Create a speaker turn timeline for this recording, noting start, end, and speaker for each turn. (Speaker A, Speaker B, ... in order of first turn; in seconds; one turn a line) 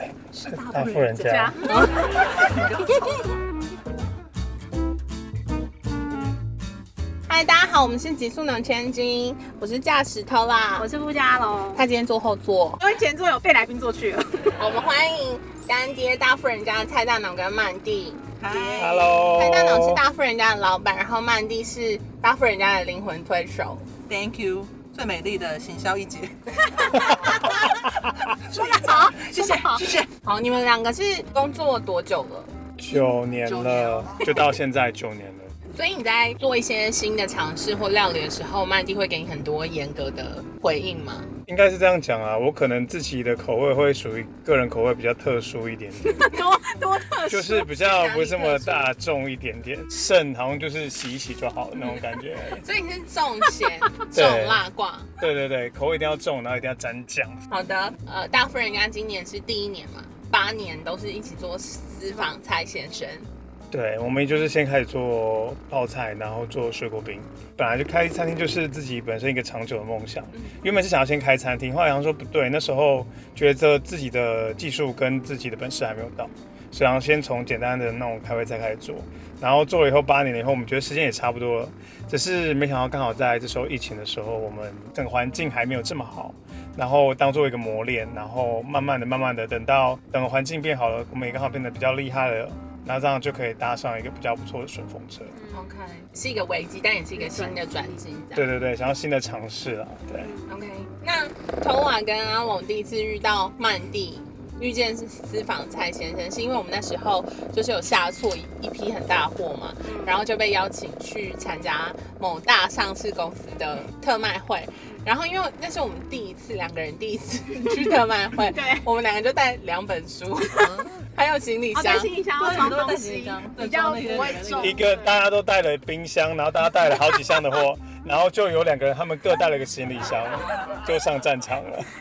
Speaker A: 0.3-1.6
Speaker B: 0.4-3.0
Speaker C: 1.1-2.8
Speaker D: 1.7-1.9
Speaker D: 7.3-10.9
Speaker C: 10.8-11.8
Speaker D: 11.7-12.8
Speaker C: 12.8-14.5
Speaker D: 14.6-23.8
Speaker B: 18.4-19.1
Speaker A: 18.8-20.0
Speaker B: 24.1-27.8
Speaker C: 26.8-27.6
Speaker B: 28.5-30.1
Speaker C: 28.5-29.9
Speaker D: 30.2-33.1
Speaker A: 32.8-35.5
Speaker C: 33.5-34.3
Speaker D: 35.7-41.3
Speaker A: 41.5-46.4
Speaker C: 46.1-47.6
Speaker A: 47.2-52.6
Speaker D: 47.6-48.9
Speaker D: 52.6-55.1
Speaker A: 54.1-54.6
Speaker A: 55.2-57.4
Speaker D: 57.5-63.3
Speaker A: 63.7-95.3
Speaker C: 95.3-95.8
Speaker D: 95.5-98.5
Speaker C: 97.2-97.9
Speaker A: 98.3-100.3
Speaker C: 100.2-100.5
Speaker D: 100.5-122.1
Speaker C: 109.8-110.2
Speaker C: 117.7-118.8
Speaker C: 121.7-125.1
Speaker B: 122.4-124.8
Speaker A: 124.6-131.9